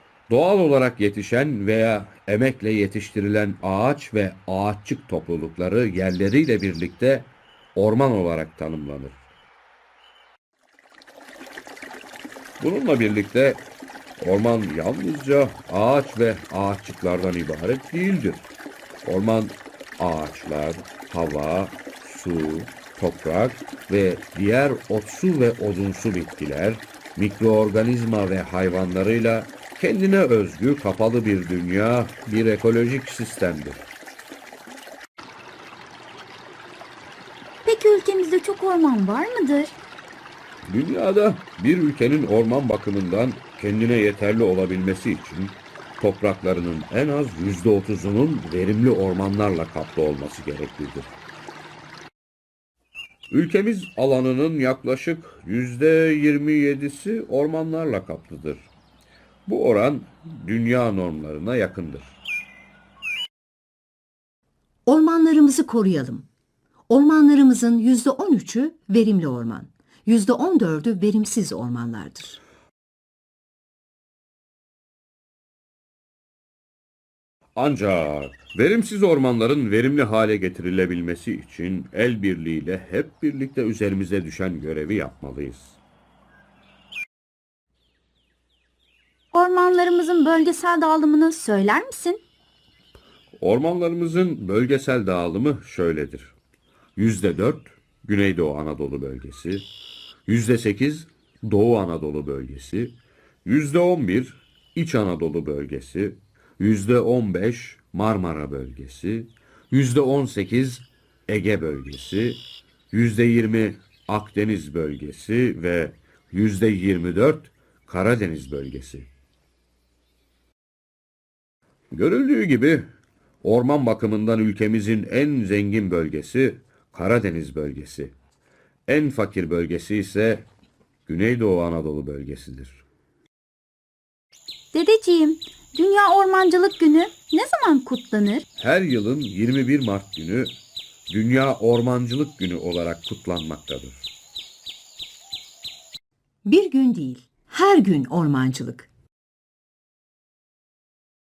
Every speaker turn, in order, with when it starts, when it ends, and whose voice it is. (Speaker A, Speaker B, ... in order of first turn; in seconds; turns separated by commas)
Speaker A: 0.3-9.2, Speaker A: 12.6-13.6, Speaker A: 14.2-18.4, Speaker A: 19.0-33.8, Speaker B: 37.6-39.8, Speaker A: 40.6-51.1, Speaker A: 53.3-58.7, Speaker A: 59.5-62.2, Speaker C: 64.8-66.2, Speaker C: 66.9-72.4, Speaker A: 77.5-85.8, Speaker B: 89.3-92.2, Speaker A: 93.4-96.3, Speaker A: 97.0-99.7, Speaker A: 100.2-119.1, Speaker A: 121.9-122.9, Speaker A: 123.4-128.1, Speaker A: 128.9-130.4, Speaker A: 131.1-132.8, Speaker B: 134.7-138.4, Speaker A: 138.6-140.6, Speaker A: 141.1-144.1, Speaker C: 146.4-148.9